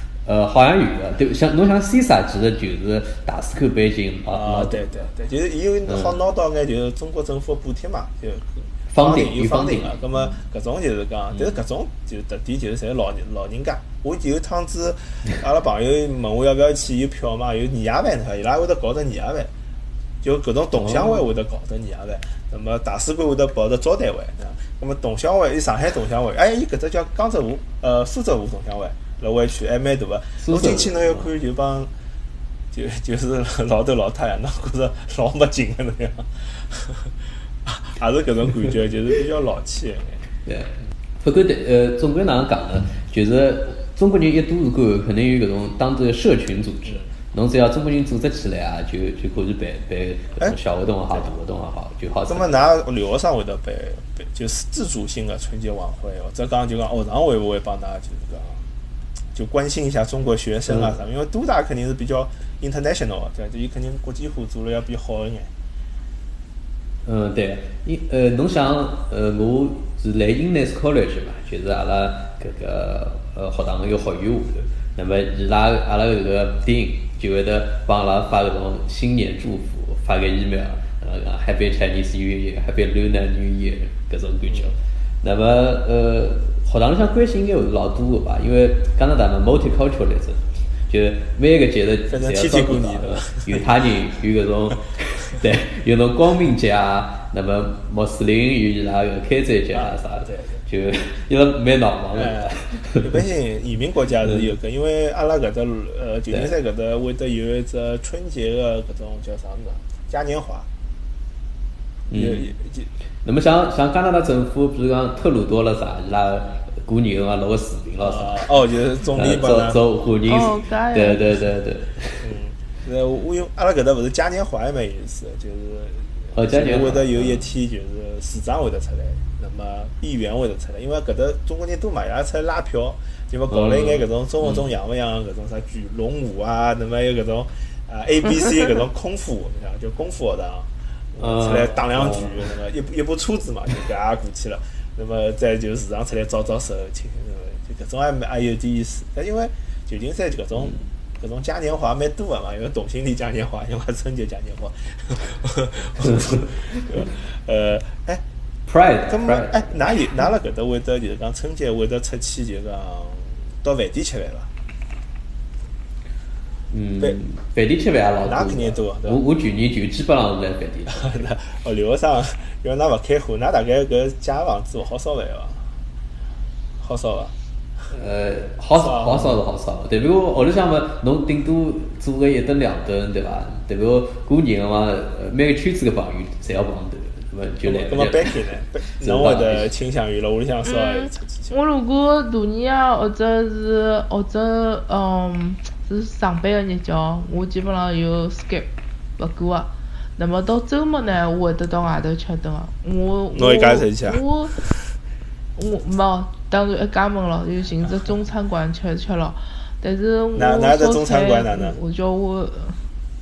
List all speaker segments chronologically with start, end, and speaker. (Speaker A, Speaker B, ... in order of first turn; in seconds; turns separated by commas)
Speaker A: 0.3-4.8, Speaker B: 4.3-19.5, Speaker A: 5.9-6.2, Speaker A: 8.9-10.0, Speaker A: 11.3-11.6, Speaker B: 20.2-31.9, Speaker A: 20.8-21.2, Speaker A: 30.4-31.3, Speaker B: 32.7-37.1, Speaker B: 37.6-40.2, Speaker A: 41.2-52.7, Speaker B: 52.3-58.6, Speaker B: 59.3-65.5, Speaker A: 60.7-61.0, Speaker A: 67.1-103.1, Speaker B: 92.1-93.7, Speaker B: 99.7-100.6, Speaker B: 102.1-110.7, Speaker A: 106.3-106.6, Speaker A: 112.1-112.5, Speaker B: 112.1-112.9, Speaker A: 113.2-118.5, Speaker B: 118.0-119.8, Speaker A: 119.1-122.3, Speaker C: 120.3-121.2, Speaker B: 122.2-158.2, Speaker A: 126.3-127.5, Speaker A: 133.5-134.7, Speaker A: 141.2-142.5, Speaker A: 158.7-159.8, Speaker B: 159.1-164.5, Speaker A: 166.7-171.3, Speaker B: 168.2-169.2, Speaker B: 170.9-175.6, Speaker B: 176.8-177.3, Speaker A: 177.9-188.4, Speaker B: 178.8-179.4, Speaker B: 187.6-191.6, Speaker A: 189.0-189.7, Speaker C: 190.6-204.6, Speaker B: 203.3-204.7, Speaker C: 205.6-212.8, Speaker B: 210.3-211.8